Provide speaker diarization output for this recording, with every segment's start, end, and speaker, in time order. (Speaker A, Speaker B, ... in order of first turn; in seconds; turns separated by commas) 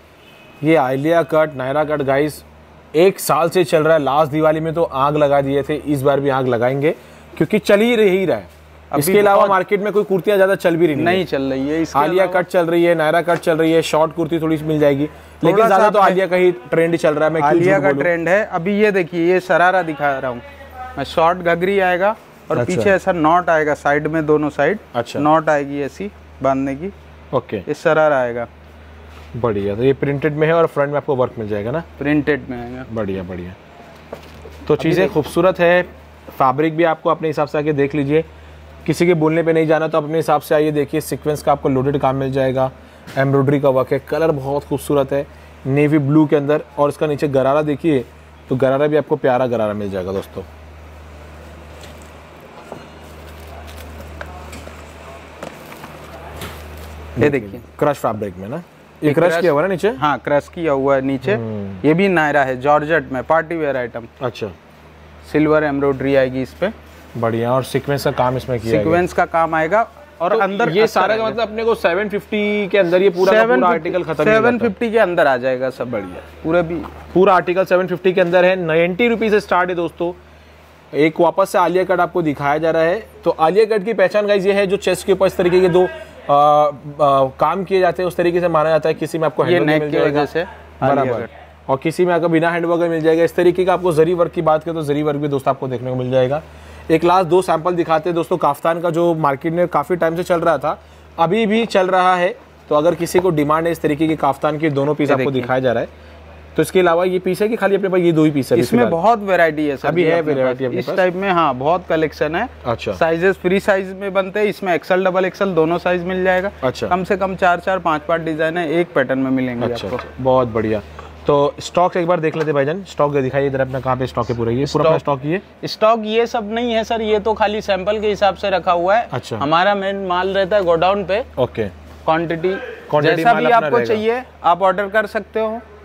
Speaker A: 0.6-11.2, Speaker B: 8.9-9.6, Speaker B: 10.9-12.4, Speaker A: 11.9-18.1, Speaker B: 15.4-16.2, Speaker B: 17.4-20.4, Speaker B: 21.0-26.9, Speaker A: 22.5-22.9, Speaker A: 24.9-25.3, Speaker A: 27.3-27.6, Speaker B: 27.6-28.5, Speaker A: 29.4-31.9, Speaker B: 32.0-32.9, Speaker A: 32.9-33.5, Speaker A: 34.6-38.2, Speaker B: 34.8-35.1, Speaker A: 38.8-50.5, Speaker A: 57.2-60.0, Speaker B: 57.2-57.6, Speaker B: 59.0-64.1, Speaker A: 61.2-61.8, Speaker A: 64.2-64.5, Speaker B: 65.3-66.7, Speaker A: 67.2-69.0, Speaker B: 68.6-71.4, Speaker A: 70.3-74.7, Speaker B: 73.1-76.9, Speaker A: 77.1-80.2, Speaker A: 80.9-90.3, Speaker B: 89.4-91.3, Speaker A: 90.8-105.9, Speaker B: 105.0-105.5, Speaker A: 106.5-109.0, Speaker B: 108.5-120.0, Speaker A: 109.8-111.0, Speaker A: 112.6-113.0, Speaker A: 116.6-116.9, Speaker A: 119.6-125.4, Speaker B: 124.6-125.0, Speaker B: 125.6-131.2, Speaker A: 129.1-129.5, Speaker A: 131.3-131.7, Speaker B: 132.0-135.6, Speaker A: 132.9-134.0